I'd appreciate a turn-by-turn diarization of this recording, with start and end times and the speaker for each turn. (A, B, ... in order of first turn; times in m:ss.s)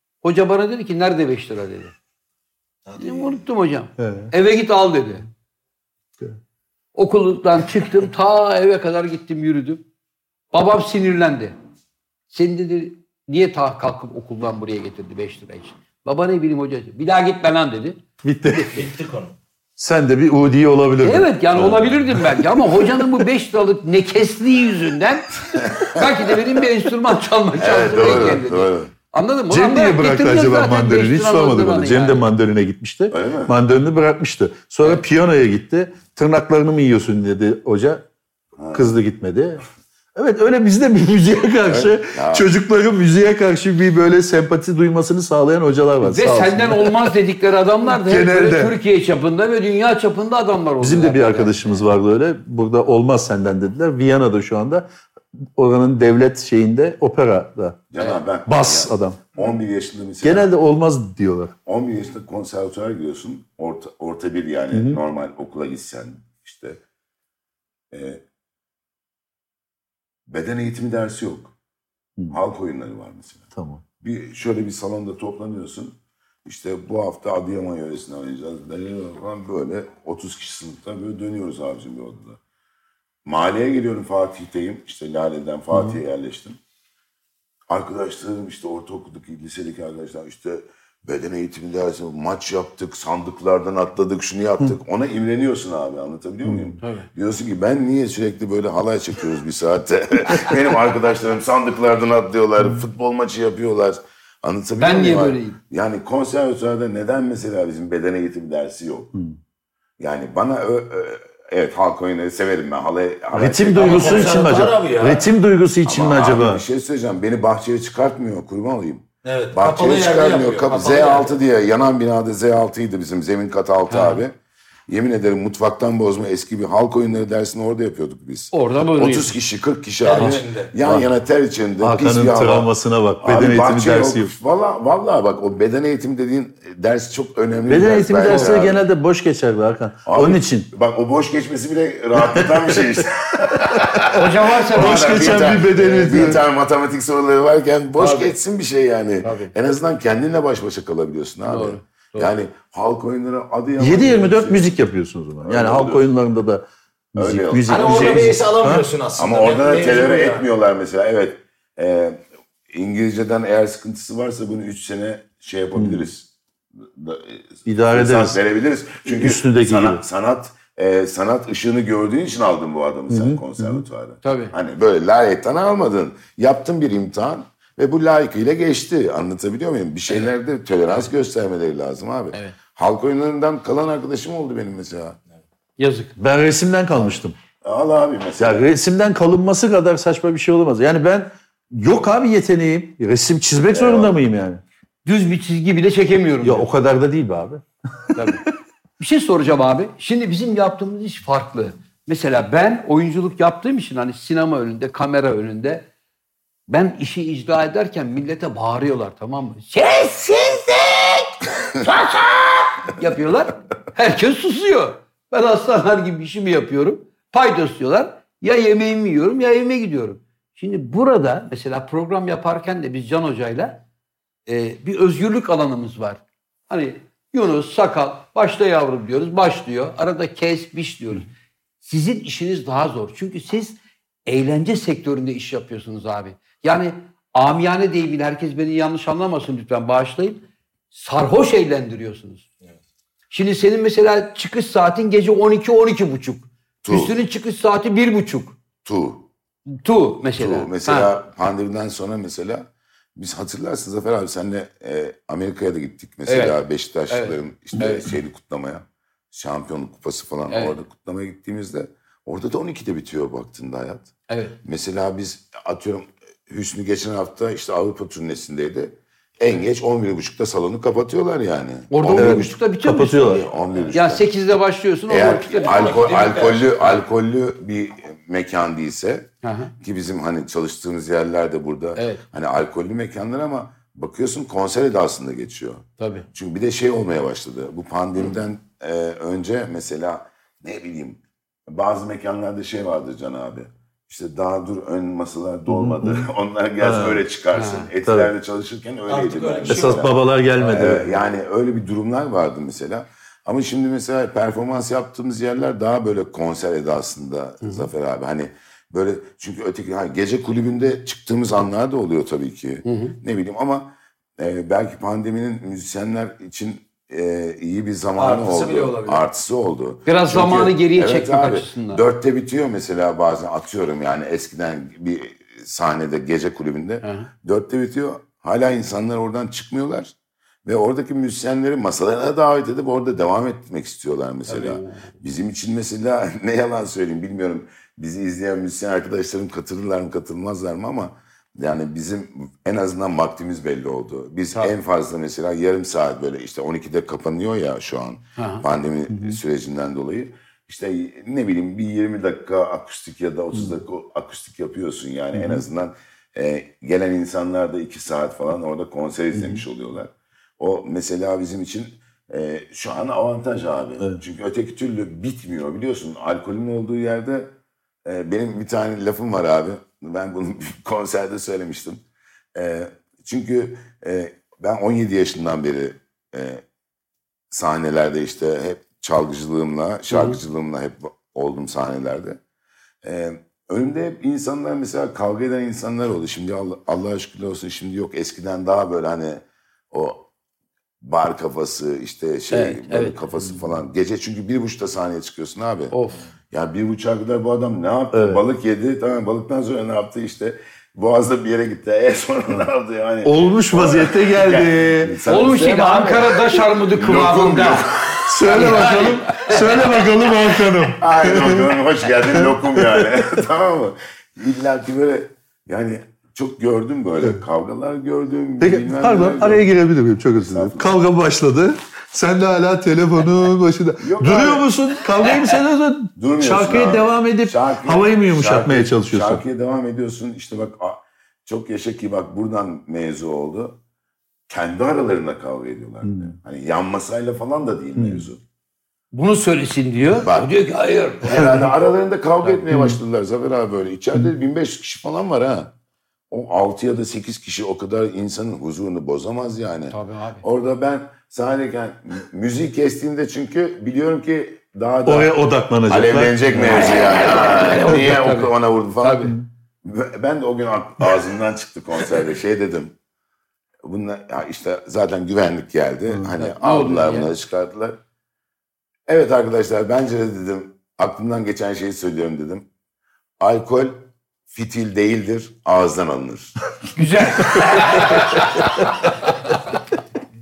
0:00.2-0:01.9 A
0:02.9-0:03.4 B
0:03.0-0:05.3 A
0:04.0-0:04.3 C
0:07.0-0:09.8 A
0:10.5-0:11.6 A
0:12.3-0:18.0 A
0:18.2-0:18.8 C
0:18.6-0:19.4 B
0:19.8-0:23.2 C
0:21.0-0:32.3 A
0:25.5-0:26.0 D
0:27.6-0:28.9 D
0:28.0-0:28.4 C
0:29.5-0:38.0 C
0:33.1-0:33.6 D
0:38.6-0:39.0 D
0:38.7-0:47.1 C
0:41.7-0:42.5 D
0:46.0-0:51.9 A
0:47.9-0:48.8 C
0:50.8-0:54.9 C
0:55.6-0:57.8 C
0:57.9-1:00.5 D
0:58.5-0:59.3 C
1:00.2-1:01.6 C
1:01.7-1:06.8 D
1:04.7-1:05.0 C
1:07.9-1:08.2 D
1:10.3-1:11.5 D
1:12.3-1:13.5 D
1:13.6-1:13.8 C
1:14.0-1:22.4 D
1:23.2-1:26.6 D
1:27.7-1:49.1 D
1:36.5-1:36.7 C
1:36.8-1:37.1 A
1:44.8-1:45.6 A
1:50.0-1:54.4 D
1:53.4-1:56.6 C
1:53.8-1:55.3 B
1:55.9-2:04.4 D
1:59.2-2:01.3 B
2:00.7-2:01.1 A
2:03.9-2:04.2 A
2:04.9-2:12.7 D
2:08.5-2:09.4 A
2:10.0-2:10.7 B
2:11.8-2:14.3 C
2:13.2-2:18.8 D
2:17.7-2:20.7 C
2:18.3-2:18.6 A
2:20.1-2:34.7 D
2:22.4-2:22.8 C
2:23.9-2:26.4 C
2:24.1-2:26.3 A
2:28.0-2:28.4 A
2:29.2-2:29.5 A
2:31.5-2:32.3 A
2:33.8-2:38.9 C
2:35.4-2:36.1 D
2:37.2-2:38.4 D
2:37.7-2:40.5 B
2:39.2-3:05.2 D
2:45.8-2:46.0 C
2:47.7-2:48.4 C
2:49.1-2:50.0 C
2:53.1-2:53.8 C
2:54.2-2:54.5 A
3:05.8-3:06.1 A
3:06.2-3:07.4 C
3:07.0-3:08.7 D
3:08.4-3:14.6 C
3:13.7-3:14.2 D
3:15.0-3:16.7 A
3:16.4-3:18.4 C
3:18.1-3:18.4 A
3:19.0-3:25.9 A
3:26.7-3:43.8 A
3:44.5-3:51.3 A
3:51.8-4:02.5 A
4:03.3-4:08.6 A
4:06.8-4:07.1 D
4:08.8-4:09.3 D
4:09.7-4:11.1 A
4:10.4-4:24.1 D
4:16.3-4:16.6 A
4:17.1-4:18.0 A
4:20.5-4:20.8 A
4:24.3-4:24.6 A
4:24.6-4:32.6 D
4:31.9-4:33.4 A
4:32.2-4:33.4 C
4:33.2-4:34.2 D
4:33.9-4:36.2 A
4:35.1-4:39.3 D
4:35.5-4:36.7 B
4:39.4-4:39.7 A
4:39.8-5:00.2 D
4:42.0-4:42.2 A
4:46.0-4:46.3 A
4:55.7-4:56.3 C
4:56.8-4:57.2 C
4:57.5-4:57.9 A
4:58.0-4:58.3 C
4:59.1-5:00.1 B
4:59.7-5:01.1 C
5:00.6-5:00.9 A
5:00.7-5:30.1 D
5:07.6-5:07.9 A
5:12.8-5:13.2 A
5:18.2-5:19.2 B
5:20.1-5:22.0 A
5:27.0-5:27.3 A
5:30.6-6:12.0 D
5:34.5-5:35.1 A
5:48.4-5:48.6 A
5:49.1-5:49.4 C
5:55.3-5:55.6 C
5:59.3-5:59.6 C
6:12.6-6:16.6 D
6:17.5-6:22.4 D
6:20.1-6:20.4 A
6:23.0-6:30.3 D
6:31.0-6:36.0 D
6:32.5-6:33.2 A
6:35.9-6:36.2 A
6:36.5-6:48.7 D
6:38.1-6:38.4 C
6:43.2-6:45.2 C
6:45.3-6:47.9 A
6:48.3-6:51.8 C
6:48.5-6:49.9 A
6:51.0-6:59.7 D
6:52.3-6:53.1 C
6:58.6-7:09.4 C
7:00.4-7:01.0 D
7:04.0-7:04.7 D
7:06.2-7:13.8 D
7:14.5-7:18.4 D
7:16.0-7:16.3 C
7:18.0-7:18.3 C
7:19.1-7:21.6 A
7:20.2-7:20.5 D
7:21.2-7:25.7 D
7:22.7-7:23.0 C
7:26.3-7:35.4 D
7:29.9-7:30.4 A
7:35.1-7:36.9 C
7:35.9-7:42.9 D
7:36.7-7:39.3 A
7:43.8-7:48.0 D
7:46.4-7:47.3 A
7:49.1-7:52.7 D
7:53.4-7:56.6 D
7:57.0-7:58.4 A
7:57.4-7:58.6 D